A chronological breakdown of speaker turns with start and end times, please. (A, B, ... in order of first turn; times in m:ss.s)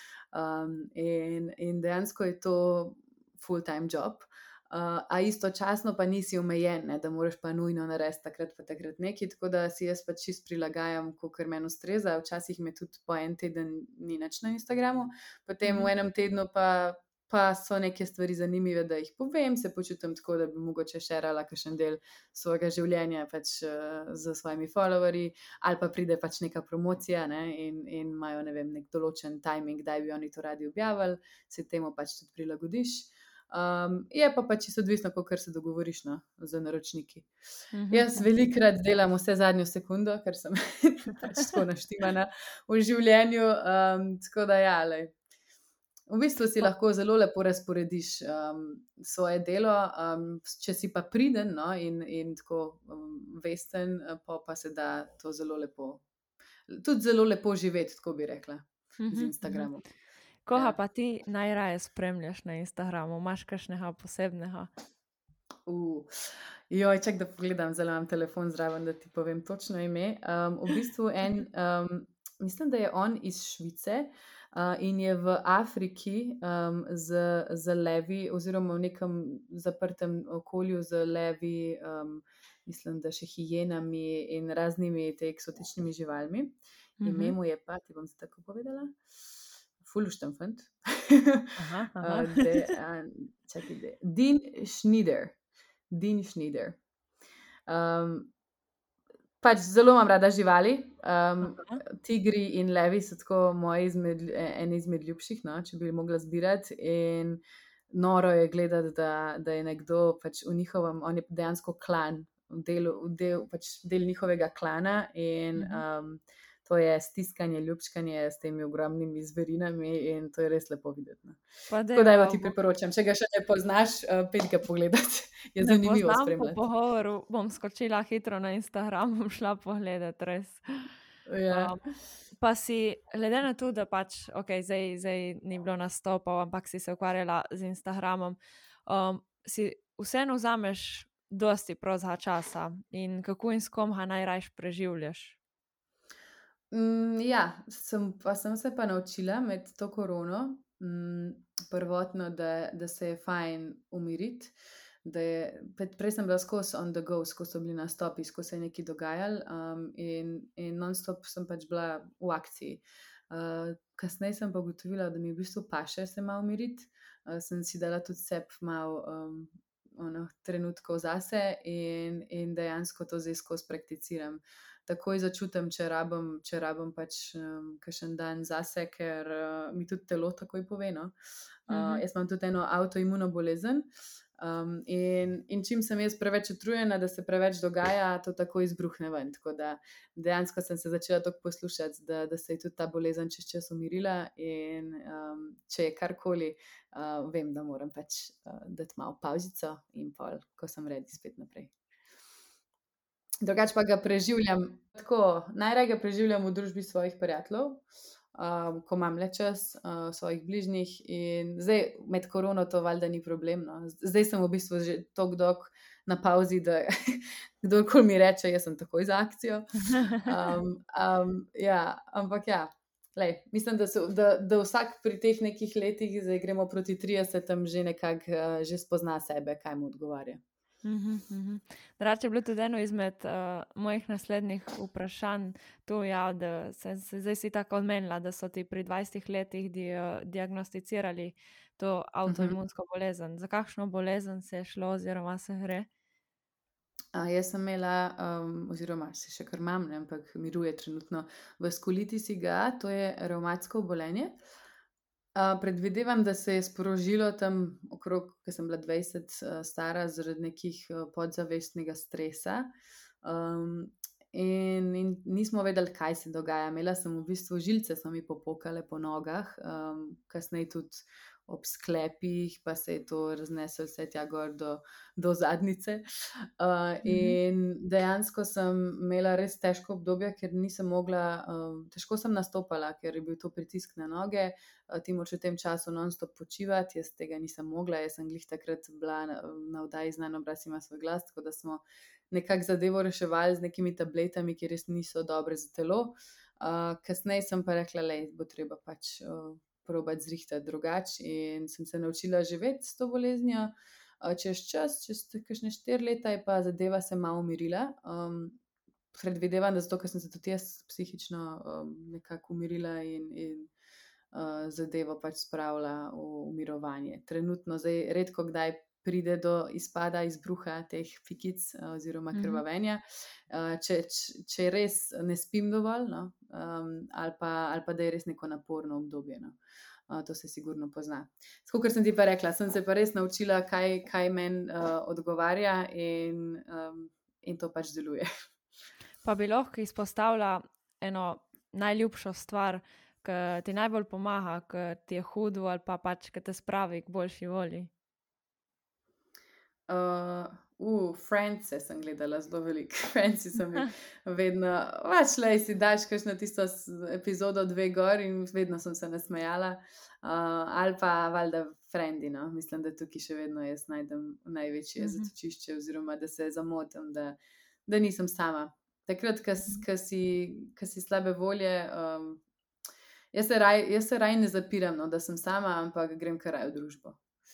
0:00.3-0:37.3 A
0:15.6-0:15.9 B
0:37.7-0:38.3 B
0:37.9-0:45.2 A
0:46.1-0:56.0 A
0:56.7-0:59.8 A
0:59.0-0:59.7 B
1:00.4-1:04.7 B
1:05.7-1:29.0 A
1:27.0-1:27.4 B
1:29.8-1:35.4 A
1:31.6-1:32.7 B
1:35.9-1:36.8 A
1:37.7-1:38.3 A
1:39.4-2:01.4 A
1:41.4-1:41.8 B
1:55.6-1:55.8 B
2:01.7-2:02.5 B
2:01.9-2:06.6 A
2:05.6-2:10.9 B
2:11.3-2:11.8 A
2:11.5-2:11.8 B
2:12.3-2:25.4 B
2:26.7-3:01.1 A
3:01.7-3:21.7 A
3:01.7-3:02.0 B
3:23.4-3:27.8 A
3:28.3-3:50.4 A
3:40.0-3:40.2 B
3:50.8-4:05.9 B
4:02.3-4:02.6 A
4:07.1-4:14.4 A
4:15.4-4:22.7 A
4:23.2-5:08.6 A
4:37.0-4:37.4 B
5:09.1-5:13.7 A
5:14.3-5:29.6 A
5:22.3-5:22.6 B
5:30.1-5:38.3 A
5:39.2-5:47.9 B
5:49.9-6:12.4 A
6:05.0-6:05.3 B
6:13.3-6:17.2 A